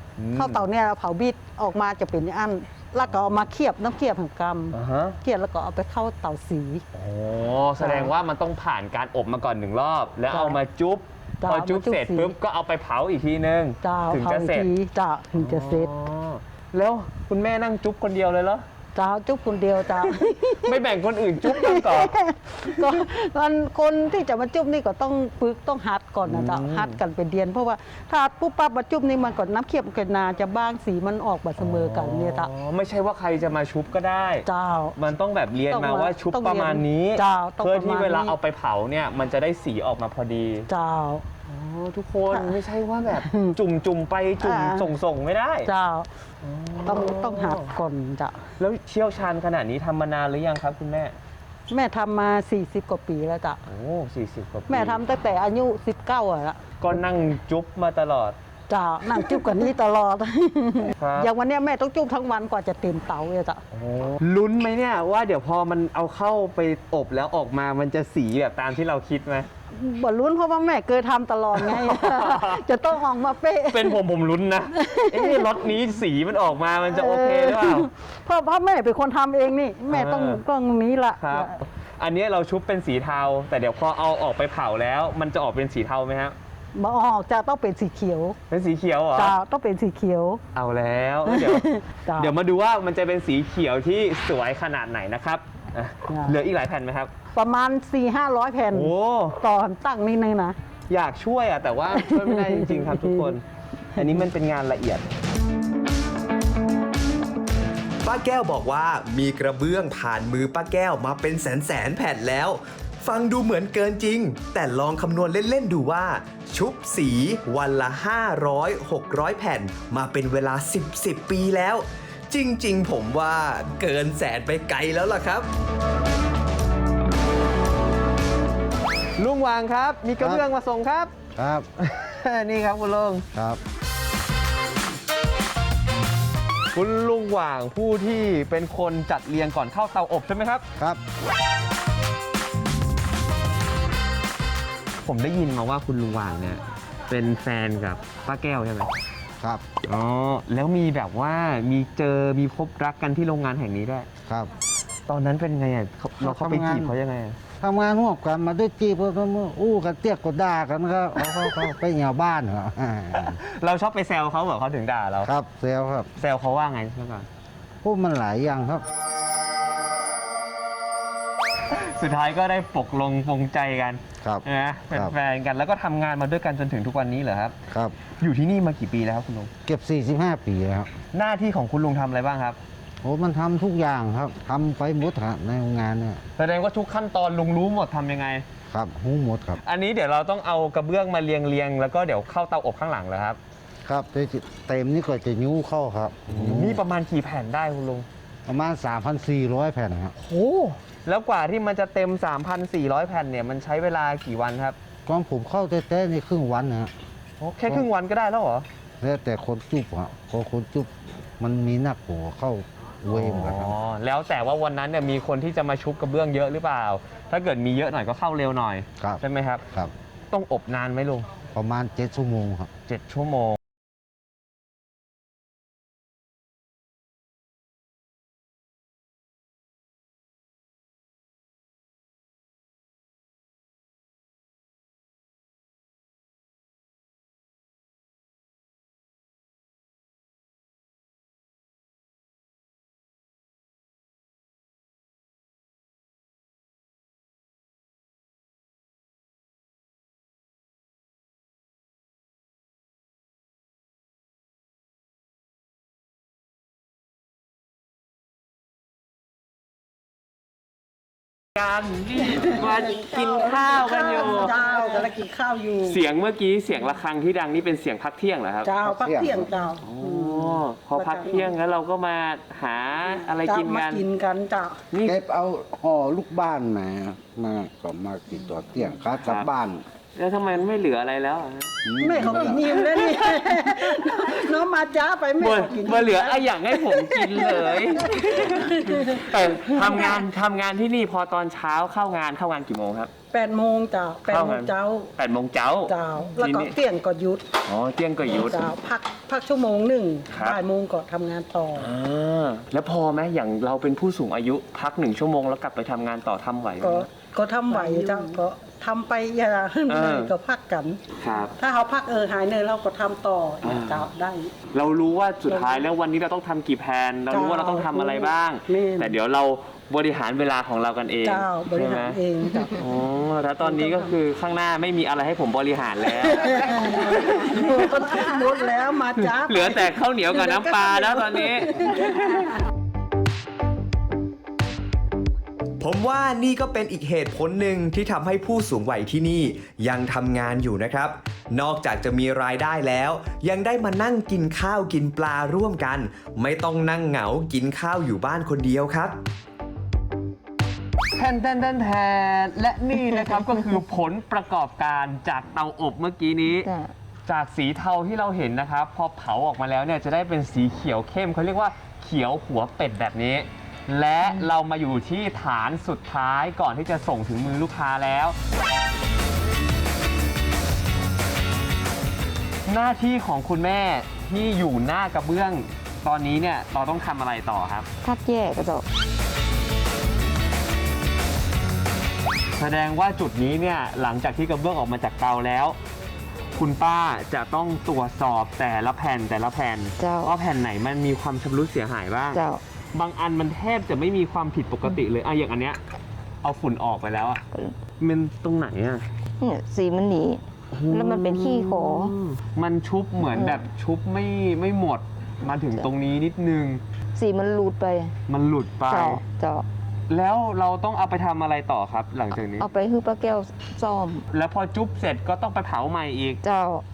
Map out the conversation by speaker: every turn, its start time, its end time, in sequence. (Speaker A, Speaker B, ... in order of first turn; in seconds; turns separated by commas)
Speaker A: 0.2-0.6, Speaker B: 0.3-6.8, Speaker A: 4.7-5.2, Speaker A: 6.9-14.7, Speaker B: 7.8-8.1, Speaker B: 10.3-10.6, Speaker B: 11.4-12.3, Speaker B: 13.8-15.9, Speaker A: 15.4-18.6, Speaker B: 18.9-20.7, Speaker A: 20.6-22.1, Speaker B: 21.4-32.5, Speaker A: 26.2-27.0, Speaker A: 31.6-40.7, Speaker B: 34.5-35.0, Speaker B: 35.7-38.4, Speaker B: 40.7-41.2, Speaker A: 41.5-45.7, Speaker B: 43.2-43.5, Speaker B: 44.4-44.9, Speaker B: 45.6-46.1, Speaker A: 46.4-47.7, Speaker B: 46.9-48.4, Speaker A: 48.6-51.1, Speaker B: 51.7-53.6, Speaker A: 53.7-55.0, Speaker B: 54.7-56.6, Speaker A: 56.8-58.4, Speaker B: 58.7-63.6, Speaker A: 61.0-61.3, Speaker A: 63.7-69.5, Speaker B: 69.7-74.0, Speaker A: 71.5-72.7, Speaker A: 73.7-77.9, Speaker B: 74.8-75.4, Speaker B: 76.9-81.6, Speaker A: 79.9-80.4, Speaker A: 81.2-86.3, Speaker B: 86.7-88.4, Speaker A: 88.5-89.3, Speaker B: 89.2-90.4, Speaker A: 90.5-91.7, Speaker B: 91.3-92.3, Speaker A: 92.2-97.1, Speaker B: 96.1-96.3, Speaker B: 97.3-100.5, Speaker A: 98.7-99.4, Speaker A: 100.9-103.4, Speaker B: 102.0-103.3, Speaker A: 103.9-105.1, Speaker C: 108.0-125.5, Speaker A: 129.2-131.1, Speaker D: 131.3-131.7, Speaker A: 131.8-133.2, Speaker D: 133.3-133.6, Speaker A: 136.7-140.6, Speaker A: 145.0-148.9, Speaker D: 149.4-149.6, Speaker A: 149.8-154.1, Speaker A: 155.1-157.4, Speaker D: 156.2-156.9, Speaker D: 157.6-163.4, Speaker A: 161.2-161.6, Speaker A: 163.1-165.3, Speaker D: 165.2-166.1, Speaker A: 166.2-167.3, Speaker D: 167.8-168.8, Speaker A: 171.7-177.5, Speaker D: 174.2-175.1, Speaker D: 177.7-177.9, Speaker A: 178.1-179.5, Speaker D: 179.7-180.9, Speaker A: 181.1-182.6, Speaker D: 183.0-186.2, Speaker A: 186.4-188.4, Speaker D: 188.7-189.6, Speaker A: 189.6-193.4, Speaker D: 193.8-196.8, Speaker A: 196.3-198.1, Speaker D: 198.4-200.1, Speaker A: 200.2-204.8, Speaker D: 205.1-206.9, Speaker A: 207.4-208.7, Speaker D: 209.0-213.7, Speaker A: 213.1-219.6, Speaker D: 219.0-219.9, Speaker A: 220.3-221.3, Speaker D: 221.5-222.7, Speaker A: 222.9-223.6, Speaker A: 261.6-265.0, Speaker B: 262.2-266.0, Speaker A: 265.9-268.7, Speaker B: 268.6-271.5, Speaker D: 268.8-269.5, Speaker A: 269.8-274.0, Speaker B: 273.3-274.8, Speaker D: 275.0-279.8, Speaker A: 279.2-279.5, Speaker A: 280.1-281.7, Speaker D: 281.8-282.8, Speaker B: 282.0-290.1, Speaker A: 282.8-284.4, Speaker A: 285.4-293.1, Speaker B: 293.3-295.1, Speaker A: 294.3-296.8, Speaker B: 295.9-297.4, Speaker A: 297.6-298.6, Speaker B: 298.5-301.9, Speaker A: 300.3-300.6, Speaker A: 301.8-307.1, Speaker B: 306.8-311.0, Speaker A: 307.7-308.3, Speaker A: 309.9-310.3, Speaker A: 311.2-311.5, Speaker B: 311.6-314.5, Speaker A: 313.6-314.1, Speaker A: 314.7-328.4, Speaker B: 315.5-315.9, Speaker B: 317.3-319.1, Speaker B: 321.2-322.8, Speaker B: 323.6-324.1, Speaker B: 326.3-332.5, Speaker A: 329.2-332.4, Speaker C: 335.8-349.2, Speaker A: 351.1-356.7, Speaker E: 356.5-356.9, Speaker A: 357.3-368.4, Speaker E: 364.2-364.5, Speaker A: 372.7-377.9, Speaker E: 378.0-378.8, Speaker A: 382.6-385.8, Speaker A: 386.5-392.4, Speaker E: 390.0-390.3, Speaker E: 392.3-392.6, Speaker A: 392.9-395.8, Speaker A: 396.4-397.4, Speaker A: 398.0-399.0, Speaker E: 399.4-402.1, Speaker A: 400.7-406.8, Speaker E: 403.3-403.6, Speaker E: 407.1-408.1, Speaker A: 408.3-409.2, Speaker E: 408.9-409.6, Speaker A: 410.1-412.7, Speaker E: 412.6-414.2, Speaker A: 414.3-416.4, Speaker E: 416.4-416.8